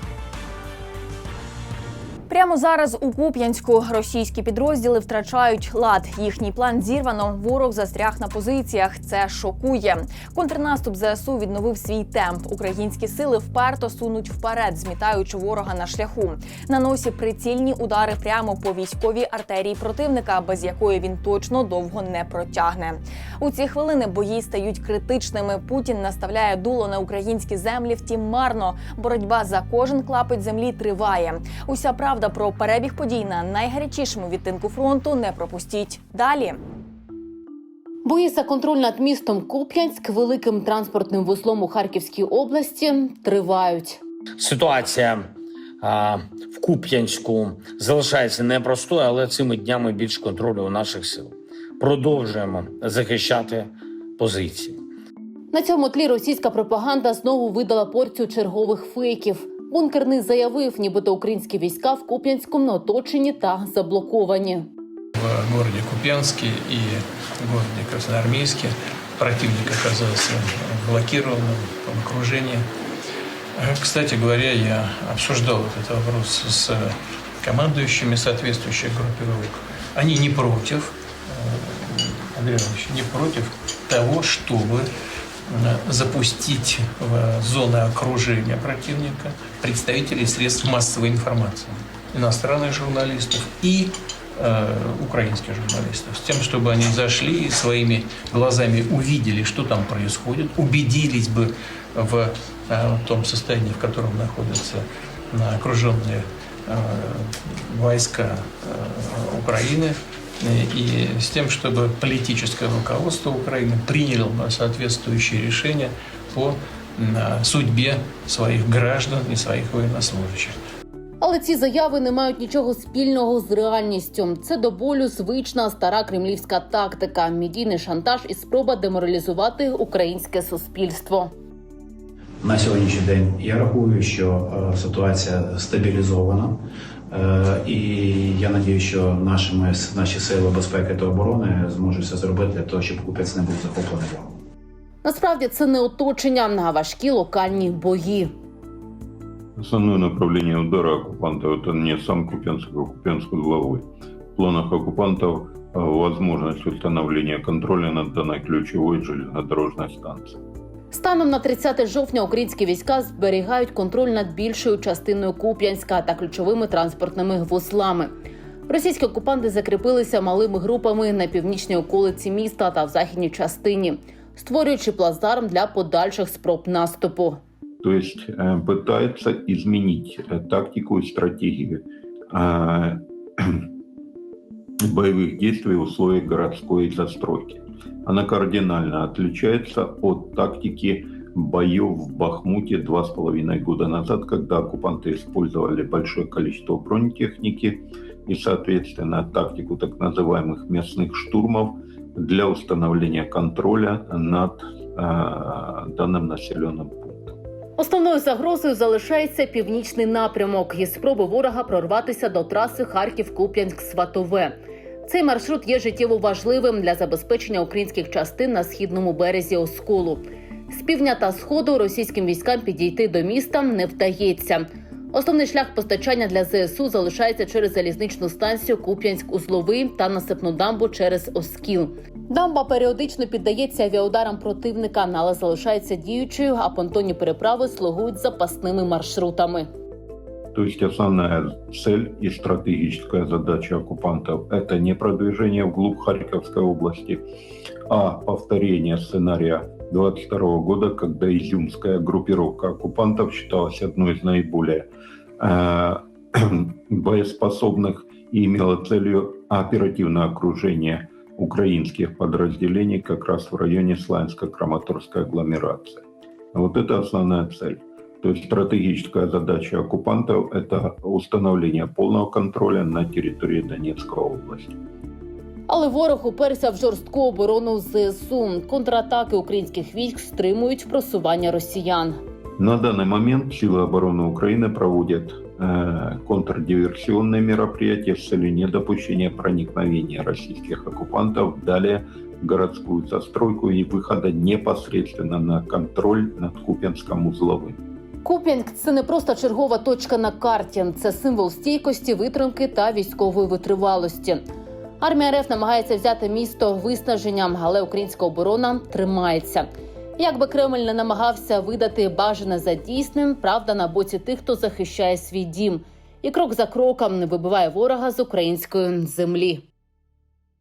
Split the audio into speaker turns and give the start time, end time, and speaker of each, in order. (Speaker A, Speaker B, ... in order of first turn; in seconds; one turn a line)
Speaker A: 2.3-36.6
Speaker B: 38.0-44.0
Speaker C: 44.4-45.3
Speaker C: 45.8-54.8
Speaker B: 55.5-64.7
Speaker D: 65.1-72.7
Speaker D: 73.6-84.9
Speaker D: 85.5-120.6
Speaker B: 121.2-131.3
Speaker E: 132.4-144.3
Speaker B: 145.0-148.3
Speaker F: 149.6-160.4
Speaker B: 160.9-168.1
Speaker B: 168.7-177.4
Speaker F: 177.8-183.7
Speaker F: 184.8-207.4
Speaker B: 207.8-239.7
Speaker F: 240.5-247.2
Speaker F: 247.9-274.8
Speaker B: 275.7-282.2
Speaker F: 282.6-297.8
Speaker B: 298.2-304.4
Speaker B: 305.0-319.6